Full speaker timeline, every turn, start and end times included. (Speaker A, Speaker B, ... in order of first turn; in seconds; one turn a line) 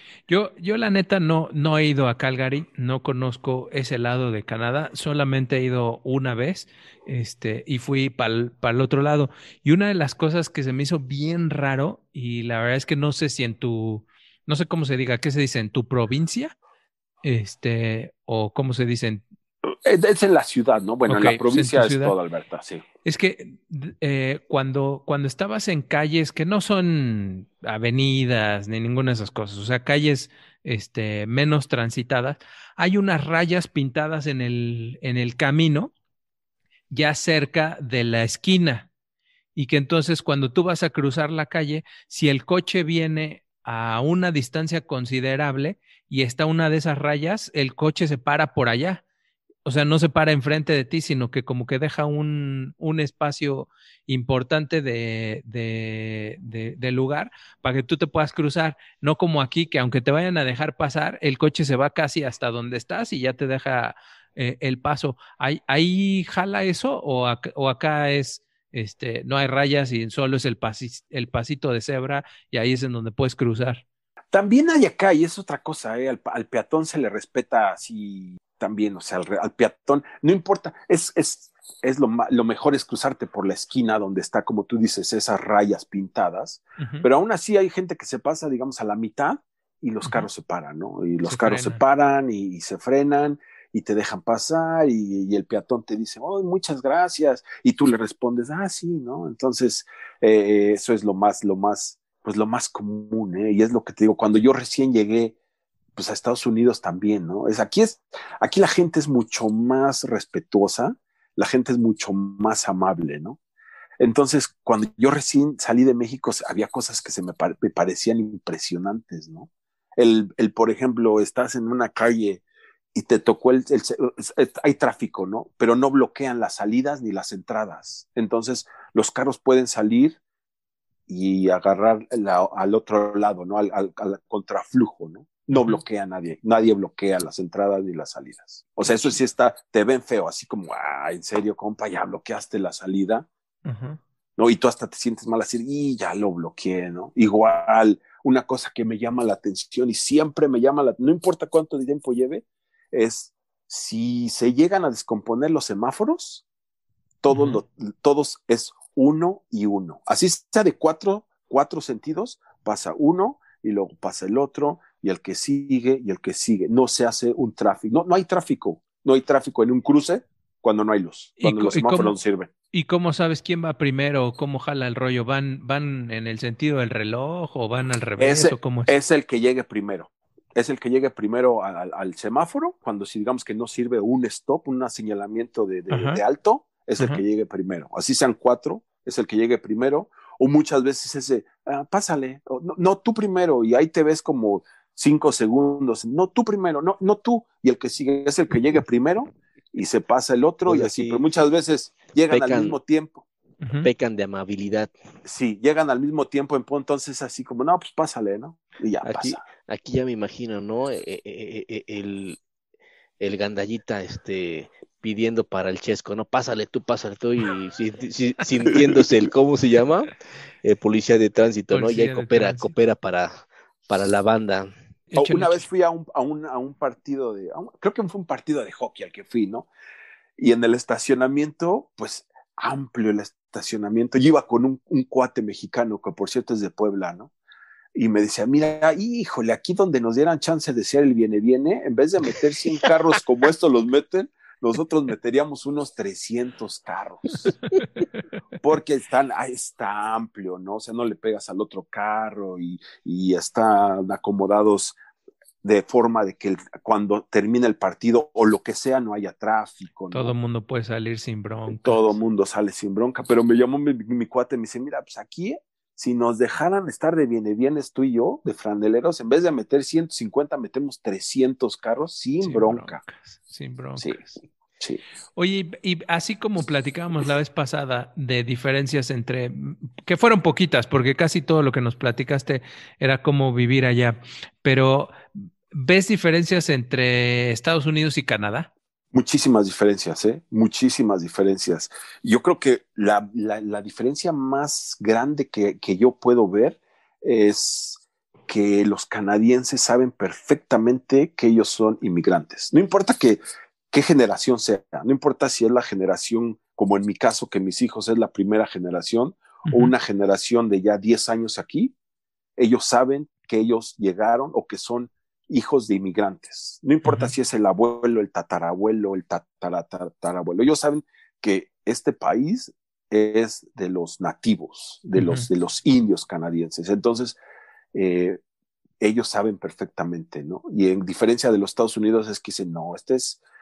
Speaker A: 0.3-16.6
Speaker A: 17.2-19.2
Speaker B: 19.7-22.8
Speaker A: 21.1-22.2
Speaker A: 23.0-35.9
Speaker A: 36.9-38.9
Speaker A: 39.5-49.0
Speaker A: 49.6-73.8
Speaker B: 74.3-105.3
Speaker A: 86.8-87.1
Speaker A: 91.2-91.8
Speaker B: 106.0-113.4
Speaker B: 114.0-122.4
Speaker B: 122.9-130.2
Speaker B: 131.1-143.3
Speaker A: 135.5-135.8
Speaker A: 138.8-139.2
Speaker A: 143.7-144.0
Speaker B: 144.4-156.4
Speaker B: 157.2-172.5
Speaker A: 157.3-157.6
Speaker A: 171.4-172.2
Speaker A: 172.7-178.9
Speaker B: 178.2-203.2
Speaker A: 185.9-186.2
Speaker C: 200.7-201.2
Speaker C: 202.3-202.8
Speaker A: 203.6-203.9
Speaker C: 203.8-204.9
Speaker B: 205.2-209.4
Speaker C: 209.0-212.4
Speaker C: 213.2-224.7
Speaker A: 221.7-222.7
Speaker A: 225.1-225.7
Speaker B: 225.2-229.7
Speaker B: 230.4-237.3
Speaker B: 237.9-247.5
Speaker B: 248.6-255.0
Speaker B: 255.6-260.3
Speaker A: 260.1-262.1
Speaker B: 261.7-273.0
Speaker A: 272.4-274.4
Speaker A: 275.4-288.7
Speaker B: 289.1-311.9
Speaker A: 309.7-309.9
Speaker B: 312.6-327.4
Speaker A: 317.0-317.3
Speaker A: 325.1-325.5
Speaker B: 327.9-328.4
Speaker B: 329.0-333.4